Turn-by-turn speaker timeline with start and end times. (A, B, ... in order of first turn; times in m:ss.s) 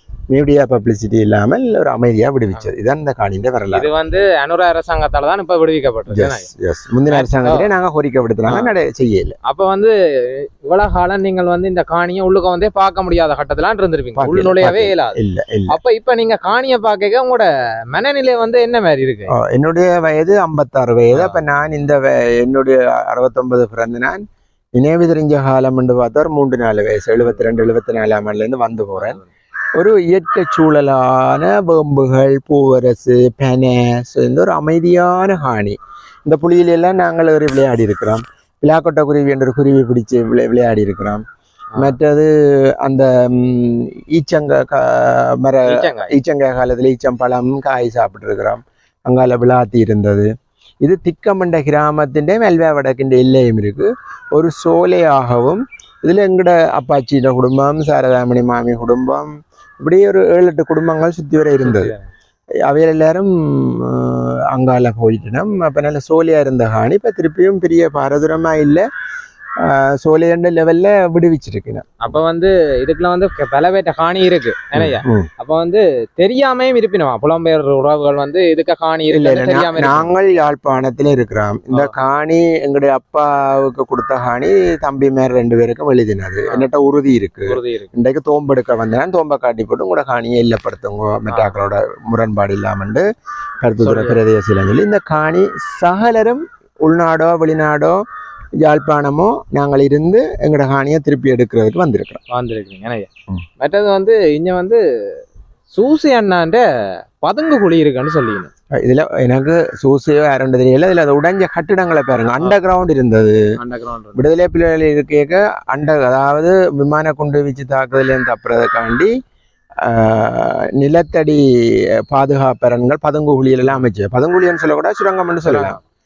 0:00.3-0:03.9 A
0:03.7-0:06.5 B
0:06.1-0:09.4 A
0:07.1-0:07.7 B
0:08.5-0:08.7 B
0:09.4-0:19.3 B
0:14.2-0:15.8 A
0:19.3-0:24.2 A
0:21.1-0:21.4 B
0:24.8-0:29.2 A
0:29.0-0:29.2 B
0:29.8-0:41.2 A
0:41.8-0:50.3 A
0:45.7-0:46.1 B
0:50.8-1:01.9 A
1:01.6-1:02.0 B
1:02.6-1:08.9 A
1:09.6-1:11.8 A
1:12.0-1:20.1 B
1:14.8-1:15.3 A
1:19.1-1:33.1 A
1:27.5-1:27.9 B
1:31.3-1:31.6 B
1:33.6-1:38.0 A
1:33.8-1:34.2 B
1:38.6-1:42.2 A
1:42.3-1:43.1 B
1:43.6-1:44.8 B
1:45.7-1:46.6 B
1:47.2-1:48.5 B
1:48.7-1:53.4 A
1:53.6-1:54.2 B
1:54.2-1:59.1 A
1:59.8-2:05.8 A
2:05.4-2:05.8 B